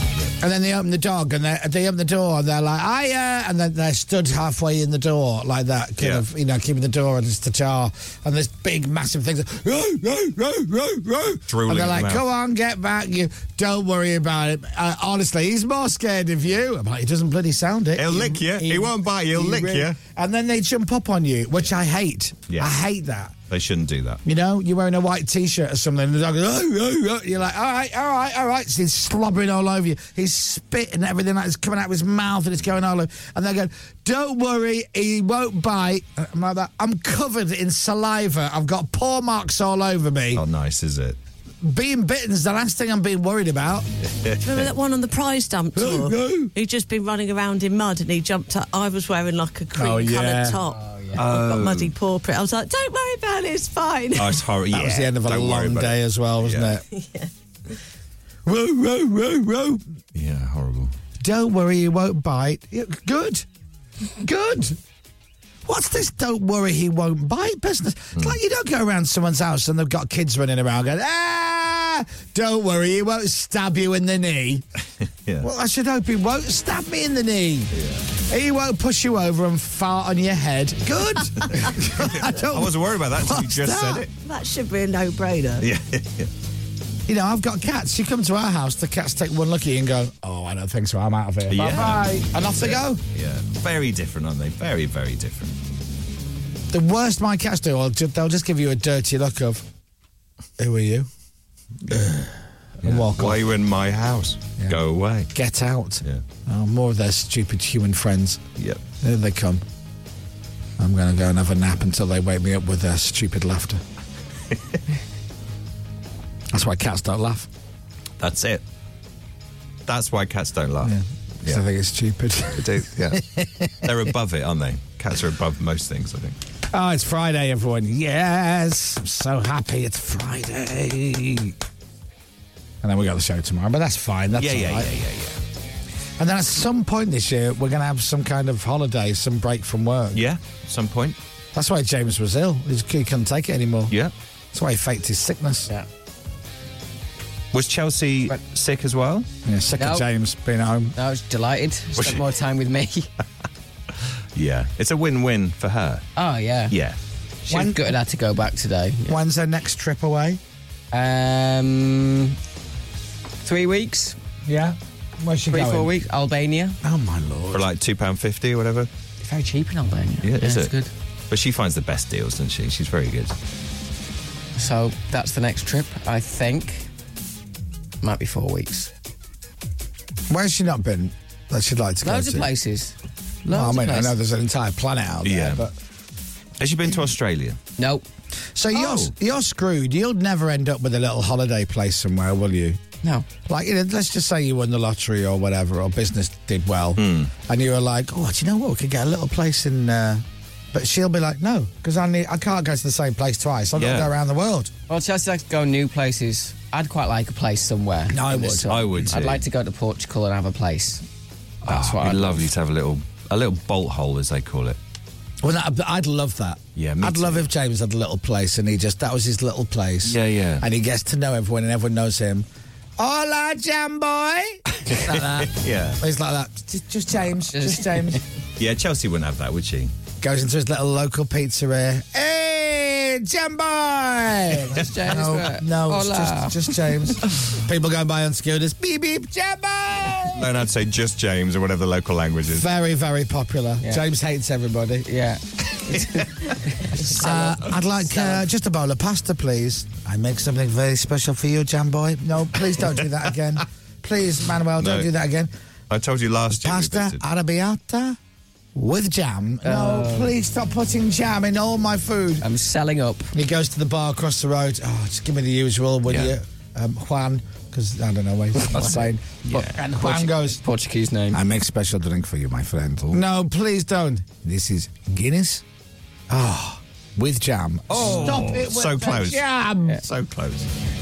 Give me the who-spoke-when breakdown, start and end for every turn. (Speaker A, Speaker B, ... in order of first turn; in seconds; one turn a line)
Speaker A: 0.4-23.4
Speaker B: 6.0-6.2
Speaker B: 11.5-12.3
Speaker B: 18.0-20.0
Speaker B: 22.5-22.8
Speaker B: 23.5-24.2
Speaker A: 24.2-40.4
Speaker B: 40.4-41.2
Speaker A: 41.6-43.9
Speaker B: 44.1-44.7
Speaker C: 44.4-54.4
Speaker A: 45.8-46.5
Speaker A: 49.8-50.6
Speaker D: 50.7-51.2
Speaker B: 51.2-51.9
Speaker B: 54.2-56.7
Speaker A: 54.7-56.8
Speaker C: 56.9-57.3
Speaker A: 58.5-59.8
Speaker B: 60.1-60.9
Speaker A: 61.2-63.5
Speaker A: 64.2-64.8
Speaker A: 65.7-74.7
Speaker A: 75.4-77.7
Speaker B: 77.7-78.0
Speaker A: 78.3-84.0
Speaker B: 81.2-84.1
Speaker C: 84.2-85.7
Speaker B: 85.6-86.3
Speaker A: 87.1-93.0
Speaker B: 91.5-95.5
Speaker A: 96.7-99.7
Speaker A: 100.6-101.1
Speaker A: 101.8-103.4
Speaker B: 102.8-105.3
Speaker A: 105.3-108.4
Speaker A: 109.0-109.6
Speaker A: 110.8-113.8
Speaker A: 116.5-117.5
Speaker B: 118.2-118.6
Speaker B: 119.9-121.6
Speaker A: 120.8-123.9
Speaker B: 122.5-123.2
Speaker B: 123.8-126.4
Speaker A: 126.7-131.6
Speaker A: 132.8-134.9
Speaker B: 134.4-135.4
Speaker A: 136.2-140.2
Speaker B: 140.1-141.2
Speaker A: 141.5-143.9
Speaker A: 144.5-145.7
Speaker B: 147.5-149.3
Speaker A: 149.4-150.9
Speaker D: 149.8-150.1
Speaker D: 151.0-153.1
Speaker B: 152.0-152.2
Speaker B: 154.3-156.1
Speaker D: 156.2-156.7
Speaker B: 156.7-157.0
Speaker D: 157.5-159.2
Speaker A: 157.5-157.9
Speaker A: 159.1-160.4
Speaker D: 160.9-162.4
Speaker D: 163.4-164.2
Speaker A: 164.5-165.9
Speaker D: 165.5-166.8
Speaker A: 166.8-167.7
Speaker B: 167.5-168.9
Speaker D: 169.2-170.9
Speaker B: 170.2-170.7
Speaker B: 171.3-173.3
Speaker D: 174.6-176.9
Speaker D: 178.0-178.9
Speaker A: 180.3-182.5
Speaker D: 182.0-182.9
Speaker D: 183.4-184.2
Speaker A: 183.5-185.7
Speaker B: 185.2-185.7
Speaker B: 186.6-187.6
Speaker D: 187.8-188.1
Speaker A: 188.6-192.8
Speaker B: 188.7-189.1
Speaker A: 193.5-204.7
Speaker B: 197.0-197.3
Speaker B: 203.8-204.1
Speaker D: 204.9-211.0
Speaker A: 208.1-208.7
Speaker B: 208.7-209.4
Speaker D: 211.7-212.5
Speaker B: 211.7-214.8
Speaker A: 215.4-222.5
Speaker B: 216.8-217.5
Speaker B: 220.0-220.7
Speaker A: 223.0-228.2
Speaker B: 224.8-226.0
Speaker D: 227.5-228.2
Speaker B: 228.6-229.9
Speaker A: 230.2-240.5
Speaker D: 234.8-236.6
Speaker B: 240.3-242.7
Speaker A: 242.5-245.1
Speaker D: 245.1-248.4
Speaker A: 247.0-255.5
Speaker B: 254.8-255.1
Speaker B: 255.9-257.2
Speaker A: 256.6-258.2
Speaker A: 258.8-262.4
Speaker D: 259.6-260.3
Speaker D: 262.4-263.3
Speaker A: 263.3-270.6
Speaker B: 266.1-266.3
Speaker D: 268.6-271.4
Speaker B: 269.4-269.7
Speaker A: 271.3-275.6
Speaker A: 276.3-280.0
Speaker B: 277.9-279.4
Speaker D: 278.1-278.4
Speaker B: 280.0-280.7